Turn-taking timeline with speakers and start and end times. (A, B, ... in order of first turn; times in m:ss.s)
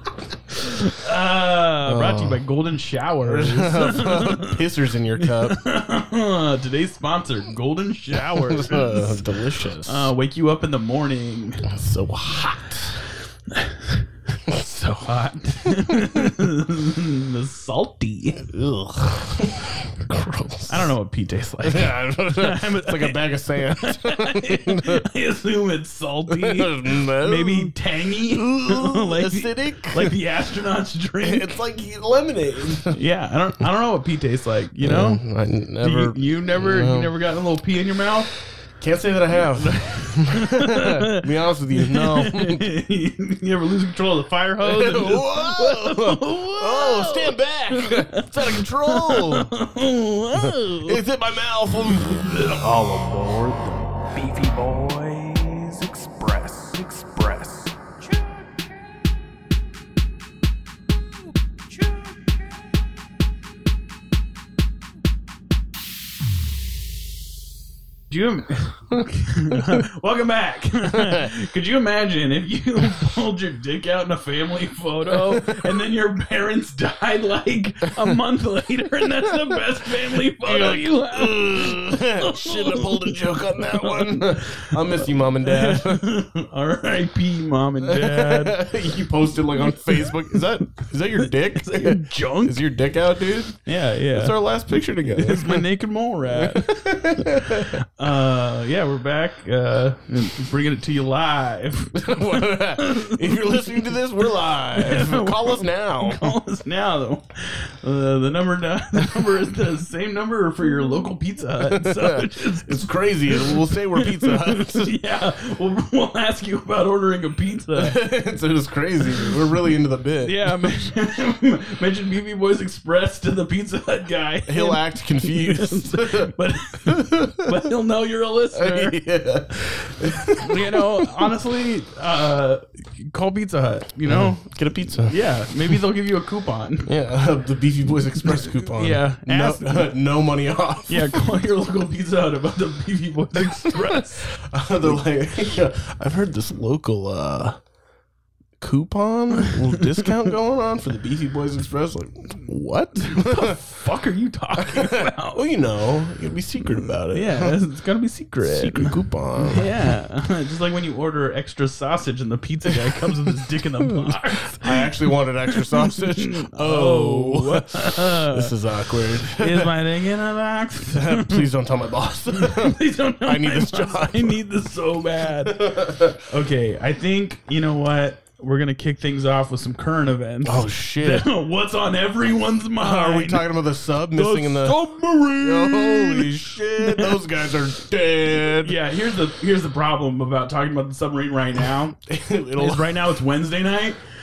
0:00.5-0:04.6 A
0:01.8-0:02.4 B
0:03.3-0:05.6 B
0:05.2-0:09.3 A
0:08.3-0:10.1 B
0:09.8-0:11.7 A
0:11.6-0:13.0 B
0:13.5-0:18.4 A
0:15.7-0:16.3 B
0:18.4-0:20.9 B
0:20.7-0:31.5 A
0:21.6-0:25.1 B
0:26.3-0:30.2 B
0:31.2-0:33.0 B
0:32.9-0:35.2 A
0:34.8-0:37.1 B
0:35.8-0:38.3 A
0:38.8-0:42.7 B
0:39.6-0:51.0 A
0:44.6-0:49.5 B
0:50.4-0:53.9 B
0:52.0-0:52.7 A
0:54.1-0:58.7 A
1:01.7-1:02.4 A
1:08.1-1:28.6 A
1:09.0-1:09.8 B
1:10.9-1:11.3 B
1:15.1-1:15.8 B
1:20.4-1:26.1 B
1:27.8-1:33.6 B
1:29.9-1:30.4 A
1:31.2-1:32.6 A
1:33.7-1:34.4 A
1:34.1-1:35.7 B
1:35.0-1:43.9 A
1:36.3-1:37.8 B
1:42.0-1:46.4 B
1:44.7-1:58.0 A
1:51.6-1:55.0 B
1:57.8-2:00.7 B
2:00.2-2:09.0 A
2:04.5-2:06.3 B
2:06.8-2:07.7 B
2:08.6-2:11.3 B
2:10.4-2:14.5 A
2:14.0-2:15.8 B
2:15.0-2:16.9 A
2:16.9-2:21.3 B
2:18.2-2:19.9 A
2:20.9-2:24.3 A
2:23.7-2:27.6 B
2:28.6-2:33.6 B
2:29.4-2:29.8 A
2:33.0-2:35.5 A
2:34.6-2:37.6 B
2:36.6-2:44.9 A
2:38.4-2:40.0 B
2:42.7-2:49.7 B
2:45.5-2:48.6 A
2:49.3-2:51.5 A
2:50.9-2:54.4 B
2:52.3-2:55.6 A
2:55.3-2:56.2 B
2:56.3-3:03.5 A
3:00.4-3:01.3 B
3:02.8-3:04.8 B
3:04.2-3:07.2 A
3:05.4-3:08.8 B
3:08.6-3:12.0 A
3:12.1-3:13.2 B
3:12.6-3:14.0 A